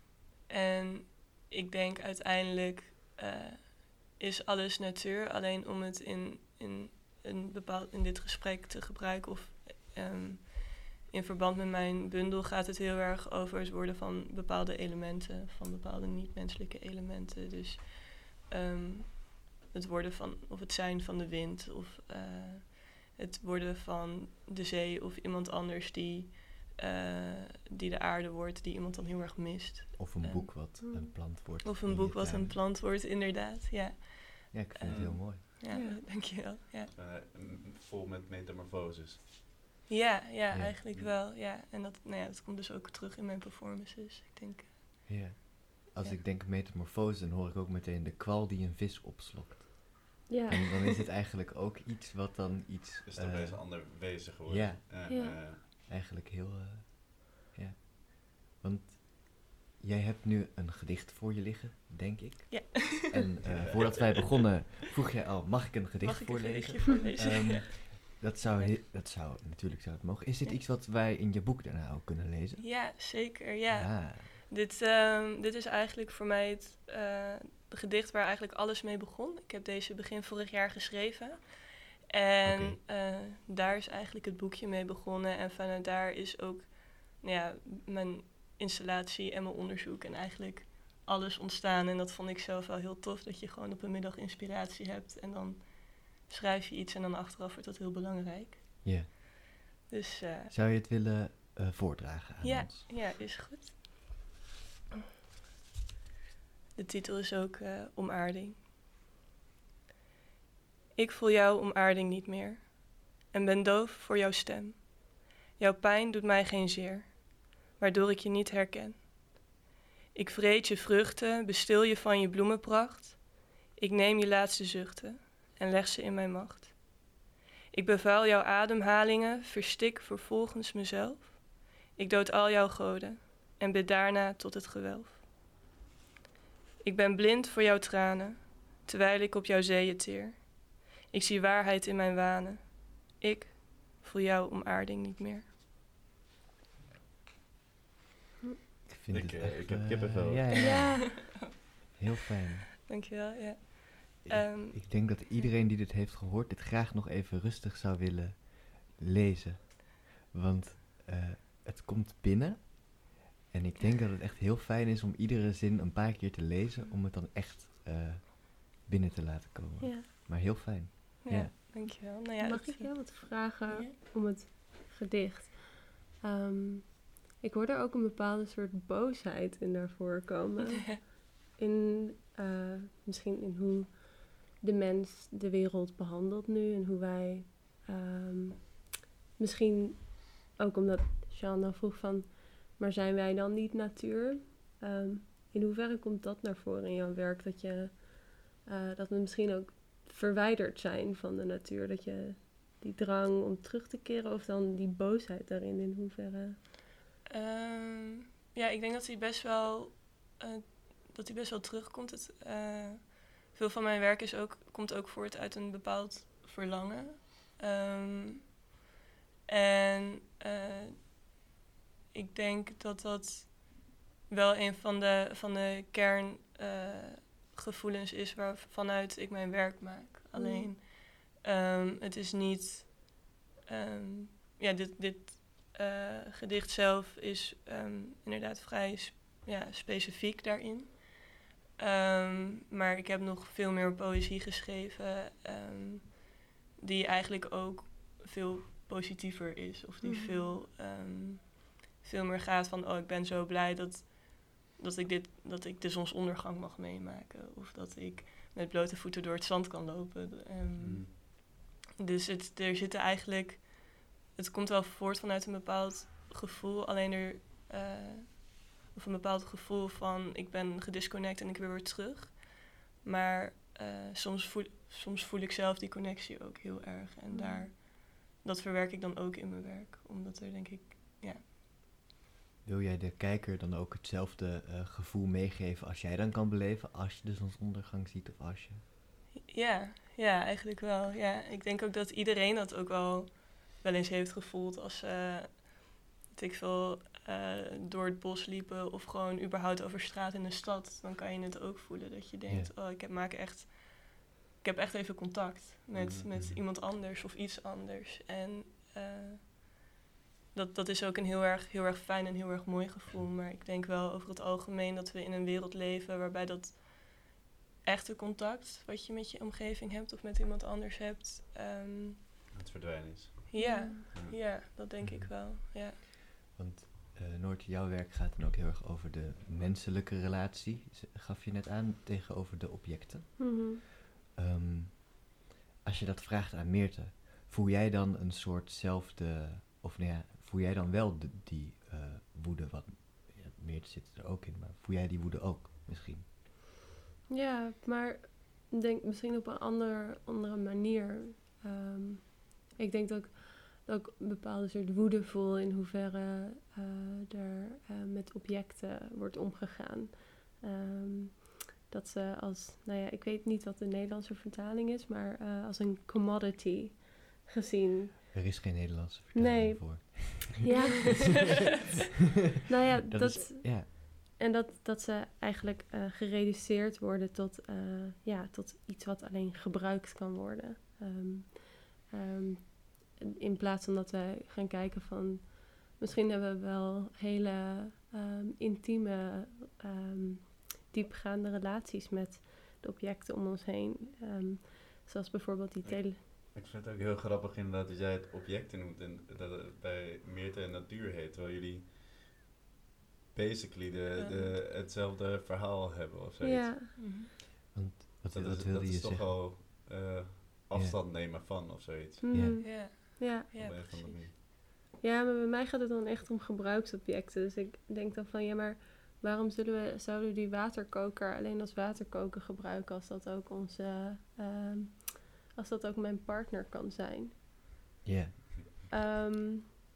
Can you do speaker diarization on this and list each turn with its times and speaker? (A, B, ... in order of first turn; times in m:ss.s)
0:00.5-0:30.8 A
0:30.0-0:32.6 B
0:30.8-0:31.2 C
0:31.6-0:36.9 A
0:34.5-0:35.4 B
0:34.9-0:35.2 D
0:35.7-0:36.0 C
0:36.9-0:39.3 D
0:39.9-0:44.8 A
0:45.1-1:12.8 B
0:50.3-0:51.0 C
0:53.1-0:55.6 D
0:55.1-0:55.4 C
1:02.5-1:03.2 A
1:03.4-1:04.3 D
1:06.0-1:08.0 A
1:12.6-1:39.1 A
1:13.7-1:14.3 B
1:22.4-1:22.8 B
1:39.9-1:40.5 A
1:40.5-1:42.9 B
1:42.4-1:43.8 A
1:46.8-1:48.6 A
1:51.0-1:59.1 A
2:00.1-2:07.1 A
2:07.7-2:15.2 A
2:16.8-2:25.4 A
2:28.9-2:32.7 B
2:29.1-2:30.4 D
2:30.5-2:30.8 A
2:30.5-2:31.1 C
2:32.8-2:35.2 A
2:34.2-2:51.5 B
2:49.8-2:50.1 C
2:51.2-2:53.9 A
2:51.8-3:26.6 C
3:27.3-3:38.6 A
3:39.5-3:41.1 A
3:42.1-4:41.4 A
3:50.4-3:50.7 C
4:10.0-4:10.6 C
4:20.8-4:21.1 D
4:37.3-4:37.7 C
4:42.6-4:48.8 B
4:49.5-5:09.8 A
5:05.9-5:06.4 D
5:10.5-5:22.2 A
5:22.5-5:24.4 D
5:23.5-5:26.0 A
5:23.6-5:24.0 C
5:25.0-5:25.3 B
5:26.5-5:33.8 B
5:33.4-5:33.8 C
5:34.4-5:46.3 B
5:47.3-6:08.5 C
6:08.3-6:10.7 B
6:09.4-6:11.6 C
6:12.7-6:36.2 C
6:13.1-6:13.9 B
6:35.8-6:42.0 D
6:43.3-6:46.8 D
6:44.2-6:44.6 A
6:46.4-6:46.9 C
6:47.0-6:47.3 A
6:47.7-6:49.4 B
6:48.3-6:52.2 D
6:52.2-6:53.8 C
6:52.3-6:52.6 B
6:52.6-6:54.2 A
6:53.5-6:54.4 D
6:55.0-7:07.3 C
7:08.0-7:08.5 B
7:08.9-7:09.7 C